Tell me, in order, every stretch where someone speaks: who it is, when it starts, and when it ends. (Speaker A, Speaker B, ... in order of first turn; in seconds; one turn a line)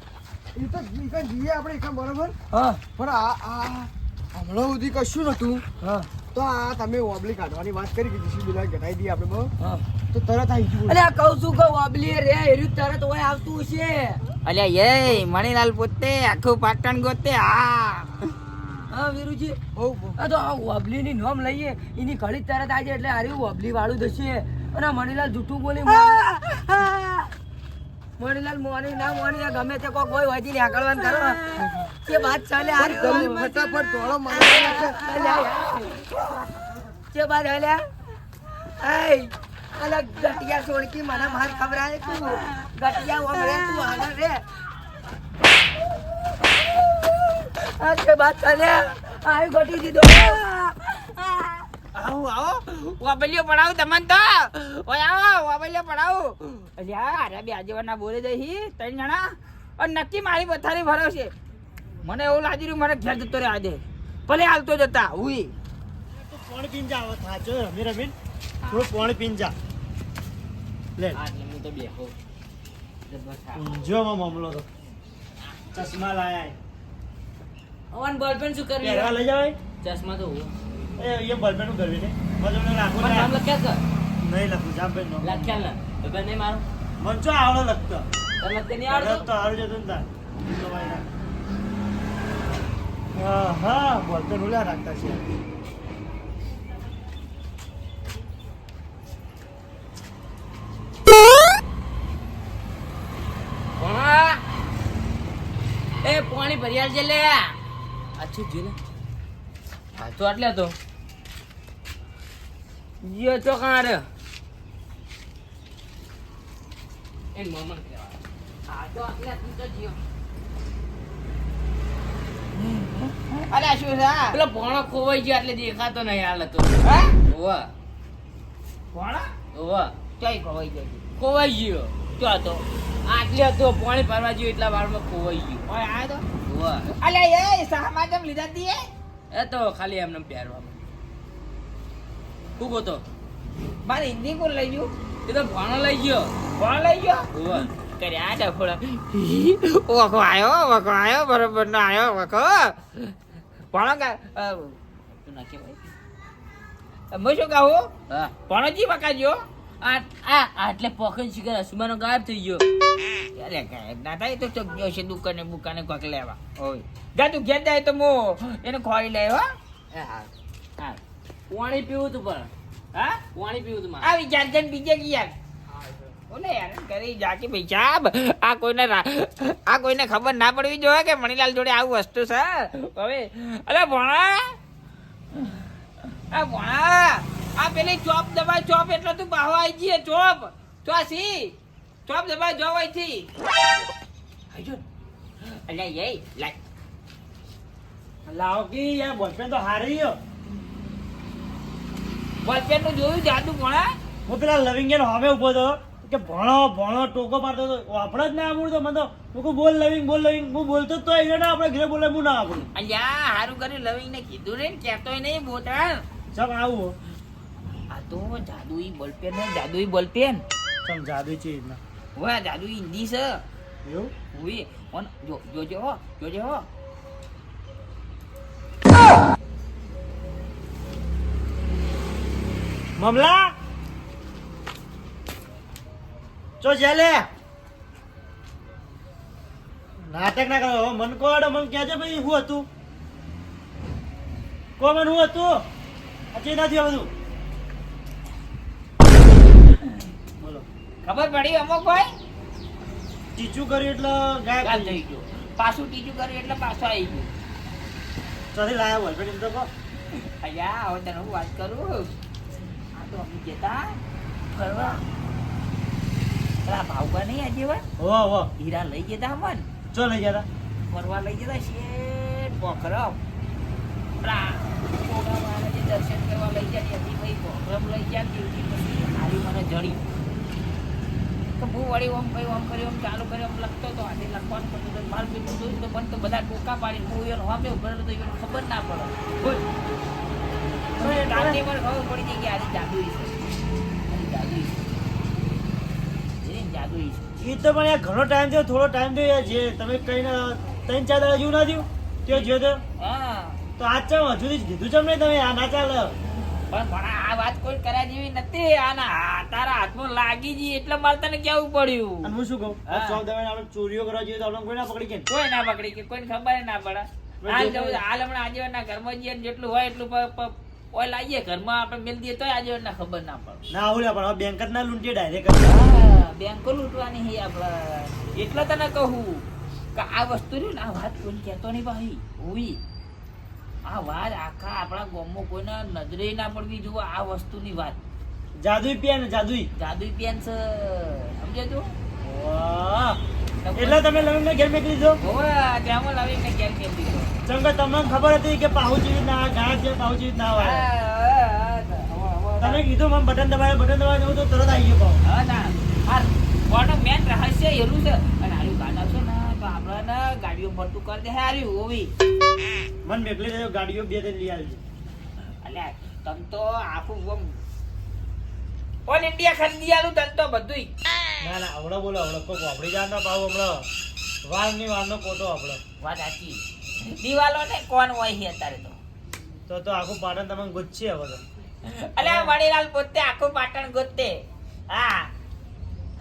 Speaker A: 0.5-2.3
Speaker B: 2.5-2.8
Speaker A: 3.0-5.6
Speaker B: 5.8-6.1
Speaker A: 6.3-9.5
Speaker A: 10.1-11.0
Speaker B: 10.9-14.2
Speaker C: 14.4-18.3
Speaker B: 18.9-19.6
Speaker A: 19.8-20.2
Speaker B: 20.2-26.3
Speaker B: 28.2-31.4
Speaker A: 31.6-31.9
Speaker B: 31.9-33.5
Speaker A: 32.8-35.1
Speaker B: 34.3-35.8
Speaker C: 35.0-36.1
Speaker B: 37.1-37.9
Speaker B: 38.8-44.4
Speaker B: 47.4-50.5
Speaker C: 51.9-61.3
Speaker C: 62.0-65.5
Speaker D: 66.3-68.1
Speaker D: 68.7-69.5
Speaker E: 71.1-72.1
Speaker E: 73.1-73.7
Speaker D: 73.5-74.7
Speaker D: 75.7-76.5
Speaker E: 77.9-79.2
Speaker D: 78.8-79.6
Speaker E: 79.8-80.5
Speaker D: 81.0-83.4
Speaker E: 82.9-83.8
Speaker D: 84.2-85.5
Speaker E: 85.2-86.6
Speaker D: 87.0-88.1
Speaker E: 88.4-89.3
Speaker D: 88.9-91.1
Speaker D: 93.1-95.2
Speaker E: 103.8-104.4
Speaker E: 106.0-107.5
Speaker E: 108.2-108.8
Speaker E: 110.0-110.7
Speaker E: 113.0-114.0
Speaker E: 117.3-120.0
Speaker C: 123.5-124.4
Speaker E: 124.3-127.7
Speaker C: 126.8-127.2
Speaker C: 128.9-129.3
Speaker E: 129.5-129.9
Speaker C: 130.2-131.0
Speaker E: 131.2-131.9
Speaker C: 132.2-132.6
Speaker E: 133.1-135.6
Speaker C: 135.6-136.2
Speaker E: 136.4-136.9
Speaker C: 136.9-138.8
Speaker E: 139.3-140.8
Speaker E: 142.6-143.0
Speaker C: 143.8-144.9
Speaker E: 145.2-146.3
Speaker C: 146.5-147.3
Speaker E: 147.3-147.7
Speaker C: 147.8-153.1
Speaker C: 153.7-155.8
Speaker C: 157.1-159.4
Speaker E: 159.8-162.7
Speaker C: 163.3-169.5
Speaker E: 169.9-170.3
Speaker E: 171.5-172.5
Speaker C: 172.9-173.2
Speaker E: 173.3-174.1
Speaker C: 174.0-175.3
Speaker C: 176.3-184.6
Speaker C: 186.3-191.5
Speaker C: 192.1-193.3
Speaker C: 194.5-194.8
Speaker C: 195.6-196.6
Speaker D: 198.2-200.2
Speaker C: 202.4-203.9
Speaker D: 204.2-212.7
Speaker C: 212.7-216.0
Speaker D: 216.3-216.9
Speaker C: 217.9-220.4
Speaker D: 220.8-221.8
Speaker C: 222.2-223.4
Speaker D: 223.8-224.1
Speaker C: 224.3-226.6
Speaker D: 233.0-233.5
Speaker D: 236.6-237.3
Speaker D: 240.1-242.7
Speaker D: 244.8-245.5
Speaker D: 246.3-247.1
Speaker D: 250.4-250.6
Speaker C: 251.0-252.1
Speaker D: 253.3-255.0
Speaker C: 254.6-257.3
Speaker D: 258.5-259.7
Speaker C: 260.4-262.1
Speaker C: 262.9-263.9
Speaker C: 264.5-265.0
Speaker C: 266.6-267.8
Speaker D: 268.0-268.5
Speaker C: 268.6-269.7
Speaker D: 269.9-270.5
Speaker C: 270.9-273.2
Speaker C: 274.2-280.0
Speaker C: 281.6-289.6
Speaker C: 291.0-293.4
Speaker D: 291.0-291.6
Speaker C: 294.1-294.9
Speaker C: 296.4-297.2
Speaker D: 297.4-302.8
Speaker C: 302.3-303.6
Speaker D: 303.8-306.1
Speaker C: 306.7-312.3
Speaker D: 312.2-315.3
Speaker C: 312.9-313.2
Speaker C: 315.3-323.6
Speaker D: 317.4-318.0
Speaker D: 323.7-325.8
Speaker C: 325.6-329.4
Speaker C: 329.9-332.8
Speaker C: 333.8-338.0
Speaker D: 338.6-339.7
Speaker C: 339.8-341.9
Speaker D: 342.2-343.2
Speaker C: 343.6-344.1
Speaker D: 343.8-345.2
Speaker C: 345.2-347.4
Speaker D: 347.4-350.9
Speaker C: 350.6-352.8
Speaker D: 352.6-355.2
Speaker C: 355.2-362.1
Speaker D: 363.0-364.8
Speaker C: 365.6-367.6
Speaker C: 369.1-370.9
Speaker D: 371.4-373.8
Speaker D: 374.5-375.8
Speaker C: 376.0-376.6
Speaker C: 377.2-379.0
Speaker D: 379.7-381.4
Speaker C: 381.9-385.3
Speaker D: 382.2-382.5